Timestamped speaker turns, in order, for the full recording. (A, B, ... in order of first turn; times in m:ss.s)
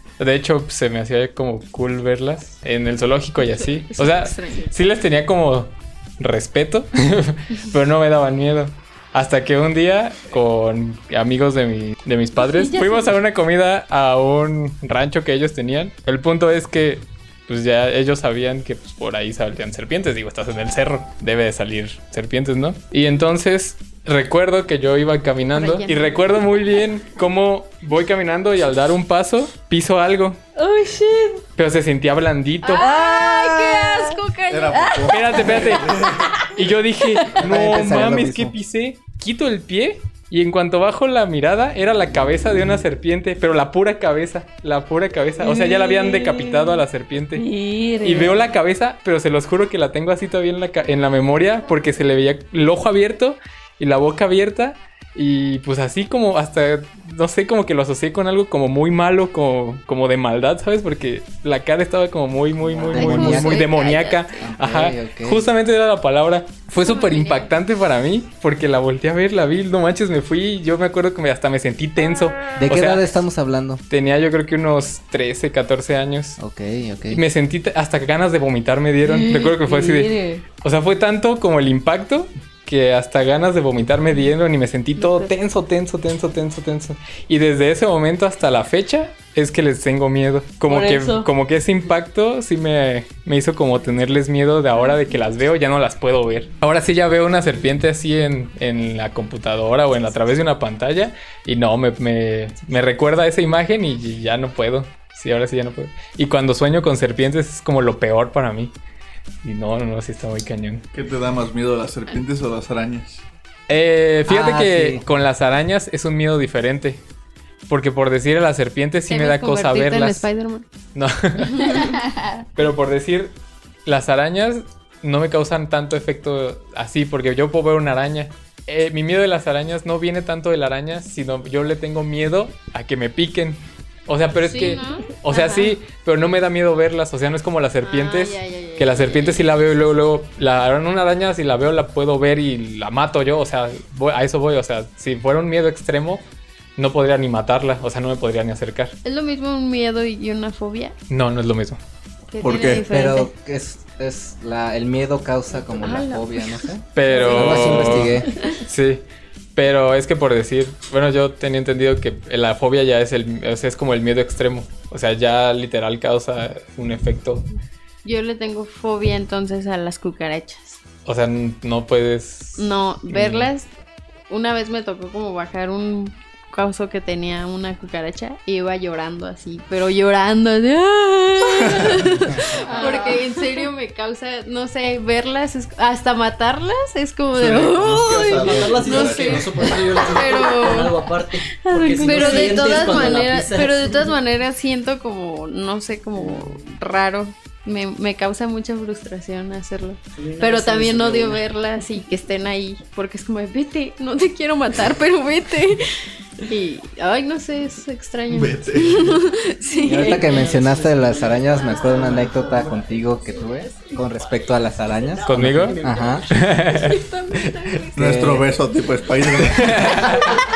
0:00.2-0:30.4 A
0:03.4-0:04.7 B
0:12.4-0:13.1 B
0:25.5-0:26.3 B
0:30.6-0:31.4 C
0:31.6-0:32.8 A
0:32.6-0:35.5 B
0:32.8-0:34.2 C
0:34.5-0:36.5 D
0:34.7-0:37.2 C
0:35.1-0:35.9 A
0:36.4-0:47.4 A
0:37.3-0:38.6 E
0:45.4-0:46.8 C
0:47.3-0:48.4 C
0:48.0-1:13.1 A
1:02.6-1:03.7 E
1:02.9-1:04.2 B
1:04.4-1:05.4 E
1:06.8-1:07.5 B
1:12.6-1:13.8 E
1:13.9-1:16.4 A
1:16.4-1:17.2 E
1:17.1-1:48.7 A
1:19.0-1:20.4 C
1:25.0-1:25.2 C
1:30.7-1:31.3 C
1:49.4-1:50.8 A
1:50.9-1:53.2 D
1:53.7-1:57.0 A
1:54.2-1:55.0 E
1:57.7-2:00.3 A
1:59.1-2:00.6 B
2:00.9-2:01.8 A
2:01.5-2:01.8 B
2:02.5-2:03.3 A
2:03.8-2:26.2 A
2:14.3-2:15.7 B
2:17.8-2:19.6 B
2:26.8-2:28.9 A
2:29.0-2:30.9 B
2:31.1-2:31.8 A
2:32.3-2:33.3 B
2:32.4-2:32.8 D
2:32.9-2:38.3 E
2:35.5-2:38.6 B
2:36.9-2:39.0 A
2:39.5-2:47.5 A
2:48.0-2:50.8 B
2:51.0-2:53.5 A
2:52.6-2:53.7 B
2:54.3-3:11.1 B
3:01.6-3:02.3 D
3:02.5-3:03.6 C
3:07.3-3:09.6 D
3:08.3-3:14.1 F
3:11.6-3:13.2 C
3:12.0-3:25.8 B
3:16.2-3:16.6 F
3:20.1-3:21.4 F
3:26.5-3:30.5 B
3:28.3-3:29.2 D
3:29.8-3:36.2 E
3:30.0-3:37.0 F
3:35.2-3:35.8 A
3:36.3-3:37.0 A
3:36.9-3:38.0 B
3:37.9-3:38.5 E
3:38.0-3:40.1 D
3:39.4-3:40.4 A